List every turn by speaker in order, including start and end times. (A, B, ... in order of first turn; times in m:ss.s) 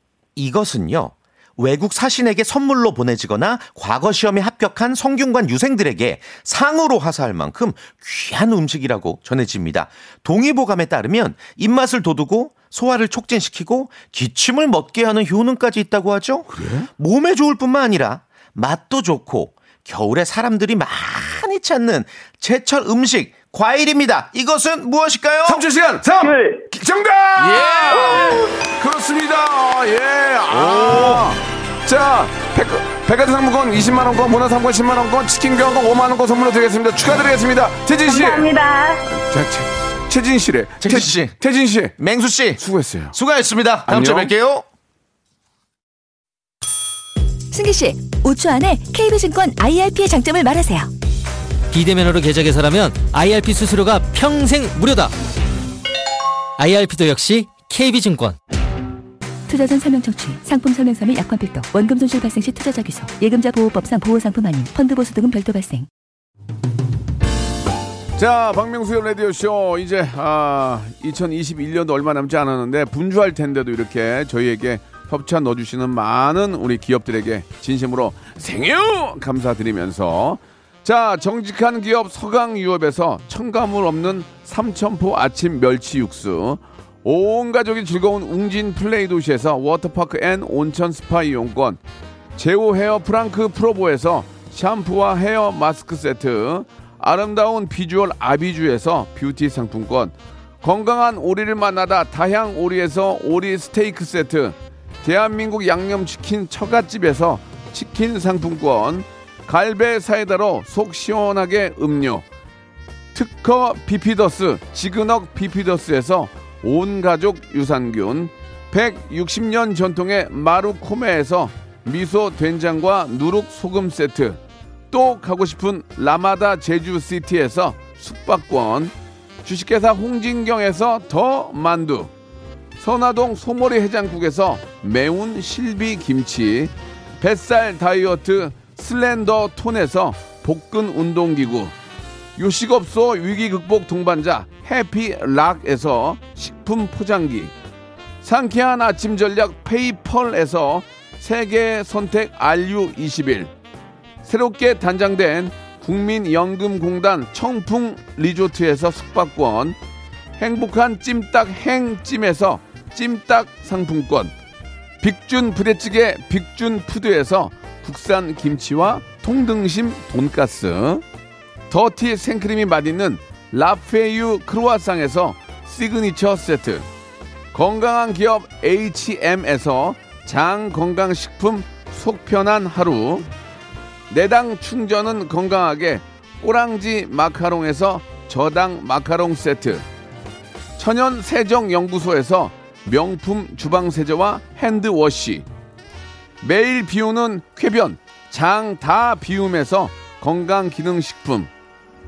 0:00.4-0:25.6 A
0:16.5-0:16.9 B
0:25.4-0:38.5 B
0:26.2-0:26.6 C
0:27.8-0:28.5 C
0:30.5-0:31.3 A
0:38.1-0:39.0 C
0:39.1-0:42.0 B
0:40.8-0:41.4 A
0:42.0-0:42.6 A
0:42.6-0:43.2 B
0:43.1-0:44.6 A
0:43.9-0:44.3 B
0:47.5-0:50.9 D
0:51.7-0:55.1 E
0:56.6-0:58.4 E
0:59.5-1:05.9 D
1:08.1-1:31.8 B
1:32.4-1:52.2 B
1:53.1-2:04.4 B
2:04.9-2:12.1 B
2:12.8-2:21.7 B
2:22.4-2:27.5 B
2:28.2-2:33.5 B
2:34.2-2:39.8 B
2:40.4-2:44.3 B
2:45.0-2:51.0 B
2:51.7-2:56.8 B
2:57.5-3:03.3 B
3:04.1-3:09.8 B
3:10.8-3:15.5 B
3:16.4-3:21.5 B